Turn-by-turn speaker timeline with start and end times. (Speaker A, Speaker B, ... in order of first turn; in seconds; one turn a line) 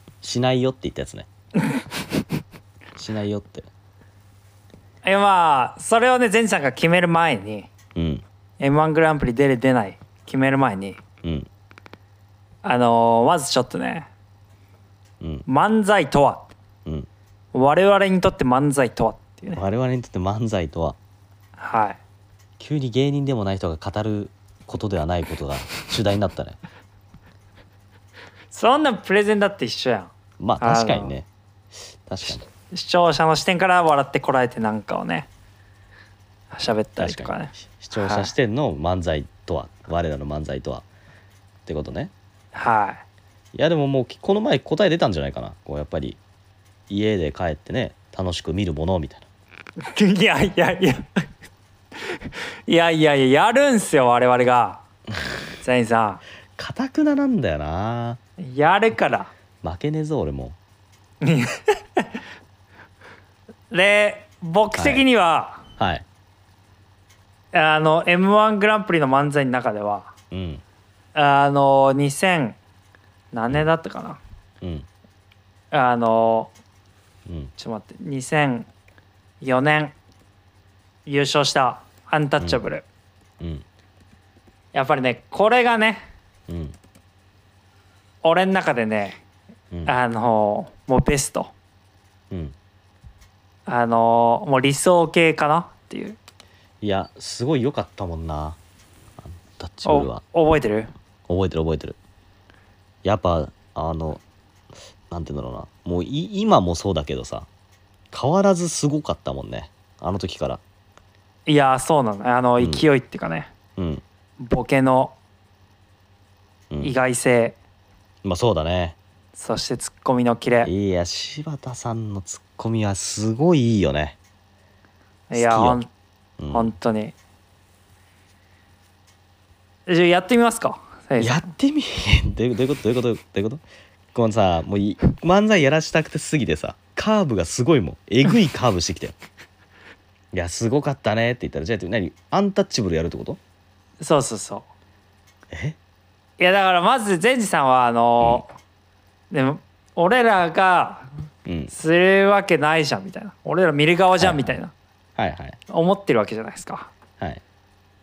Speaker A: 0.2-1.3
Speaker A: 3.0-3.7
Speaker B: 5.0-7.7
Speaker A: 8.0-8.2
Speaker B: 8.6-11.0
Speaker A: 11.2-11.5
Speaker B: 12.6-14.1
Speaker A: 15.2-15.4
Speaker B: 15.5-16.5
Speaker B: 17.5-19.6
Speaker A: 19.5-21.0
Speaker B: 21.6-22.0
Speaker A: 22.6-26.6
Speaker B: 28.5-31.1
Speaker A: 30.4-31.3
Speaker A: 32.1-32.5
Speaker B: 32.7-35.3
Speaker B: 36.5-38.3
Speaker A: 37.0-40.9
Speaker A: 41.7-42.1
Speaker B: 42.5-43.0
Speaker A: 43.5-46.2
Speaker A: 46.9-49.3
Speaker B: 49.8-51.1
Speaker B: 52.1-54.8
Speaker B: 55.6-56.2
Speaker A: 56.6-58.2
Speaker B: 58.4-59.3
Speaker A: 59.6-60.6
Speaker B: 61.2-62.1
Speaker B: 63.7-65.6
Speaker A: 64.8-65.0
Speaker A: 65.8-66.0
Speaker B: 67.5-70.1
Speaker A: 70.3-70.6
Speaker B: 71.2-72.6
Speaker B: 73.3-74.2
Speaker A: 74.6-74.9
Speaker B: 75.7-76.5
Speaker A: 77.3-77.5
Speaker B: 77.6-78.7
Speaker B: 79.4-80.0
Speaker B: 81.1-82.8
Speaker A: 83.4-83.7
Speaker B: 84.7-86.0
Speaker A: 86.5-86.8
Speaker B: 88.2-89.2
Speaker B: 89.9-91.5
Speaker B: 93.7-96.2
Speaker A: 96.8-98.6
Speaker A: 99.2-100.2
Speaker B: 99.8-100.9
Speaker A: 101.3-102.0
Speaker A: 103.0-104.2
Speaker A: 105.1-107.5
Speaker A: 108.1-110.6
Speaker B: 111.5-113.5
Speaker A: 112.6-112.8
Speaker A: 113.8-114.0
Speaker B: 114.4-115.2
Speaker B: 116.8-117.6
Speaker A: 118.2-119.0
Speaker B: 119.3-120.7
Speaker A: 120.6-124.2
Speaker B: 125.3-125.9
Speaker A: 125.3-125.8
Speaker A: 126.4-126.7
Speaker B: 126.5-127.2
Speaker B: 129.9-131.5
Speaker A: 131.2-133.6
Speaker A: 134.1-139.2
Speaker A: 140.3-143.4
Speaker B: 144.0-144.7
Speaker A: 145.5-145.8
Speaker B: 146.4-148.5
Speaker A: 148.2-148.4
Speaker B: 149.3-151.1
Speaker A: 151.4-151.7
Speaker B: 151.7-154.7
Speaker A: 154.2-154.6
Speaker A: 155.2-155.6
Speaker B: 155.7-156.9